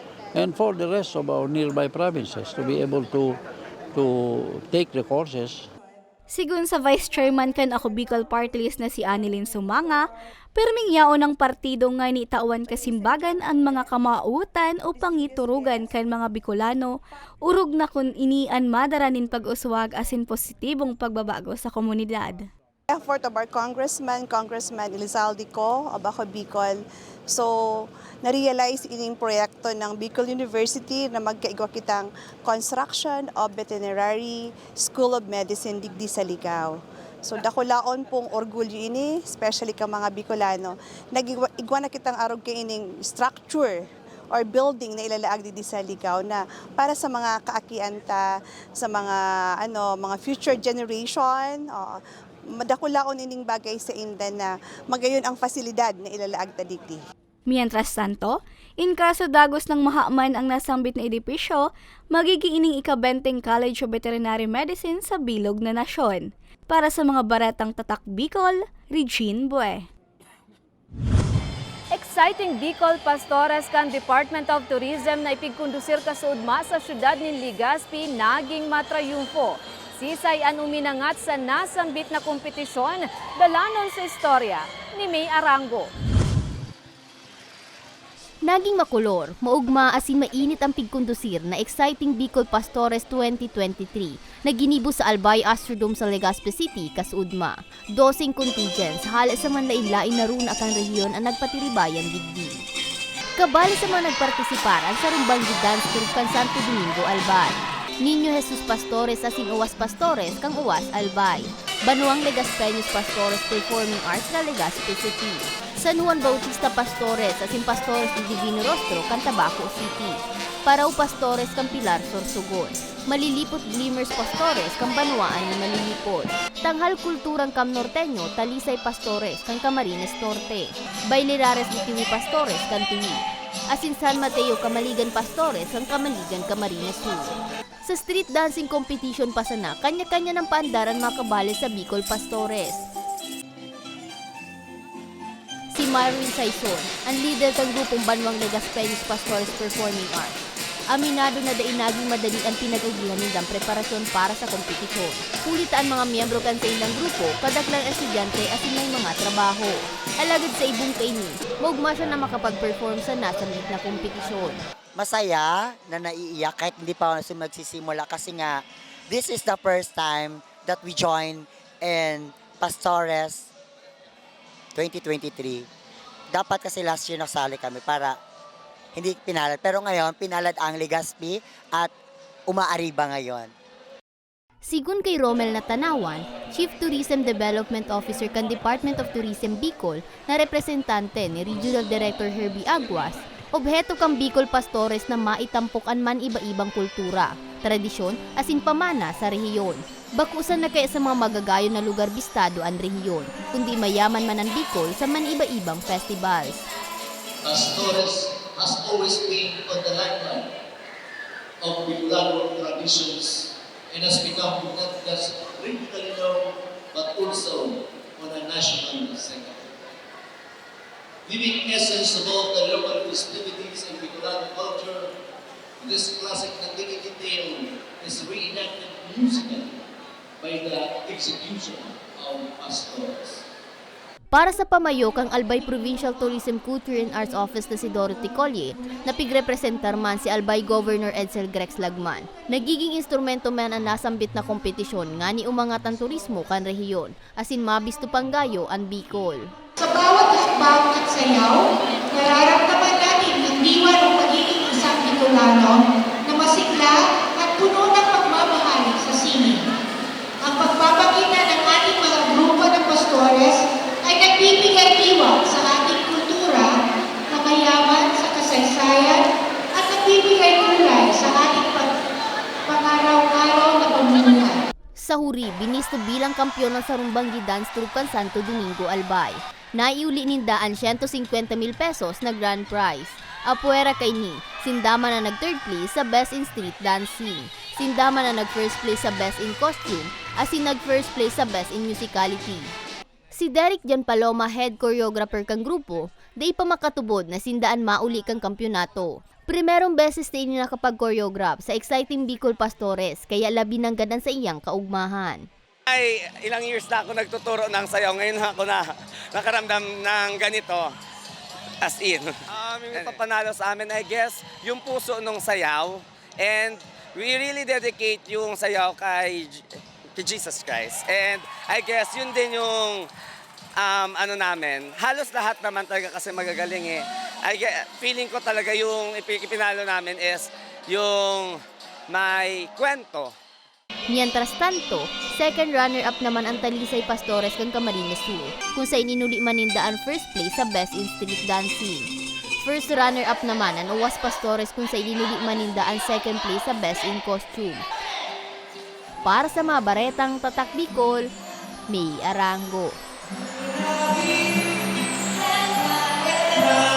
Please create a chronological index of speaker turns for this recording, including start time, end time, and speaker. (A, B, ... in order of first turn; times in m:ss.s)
0:00.3-0:03.4 A
0:03.9-0:05.7 A
0:06.3-0:10.0 B
0:10.6-0:16.9 B
0:17.5-0:22.5 B
0:22.9-0:43.8 C
0:44.3-0:48.2 C
0:48.8-0:52.0 C
0:52.6-0:57.0 C
0:57.5-1:09.8 B
1:11.9-1:25.9 D
1:28.4-1:42.6 E
1:43.4-2:17.3 E
2:17.8-2:22.8 E
2:25.7-2:30.4 E
2:30.9-2:44.6 E
2:45.0-2:53.5 F
2:54.8-2:55.7 F
2:56.3-2:58.2 F
2:59.0-3:01.9 F
3:02.5-3:03.5 F
3:04.6-3:26.6 E
3:27.4-3:30.5 G
3:31.6-3:39.7 G
3:41.3-3:45.1 G
3:45.8-3:49.8 G
3:50.4-3:53.4 G
3:54.3-4:09.4 E
4:09.8-4:19.6 H
4:20.4-4:26.8 H
4:27.3-4:29.2 H
4:29.8-4:31.9 H
4:32.7-4:34.6 H
4:35.0-4:52.7 E
4:53.3-5:05.5 E
5:05.9-5:10.9 I
5:11.8-5:23.1 I
5:23.8-5:31.6 I
5:32.1-5:33.3 I
5:34.1-5:47.8 E
5:49.2-5:51.2 E
5:51.9-5:53.0 E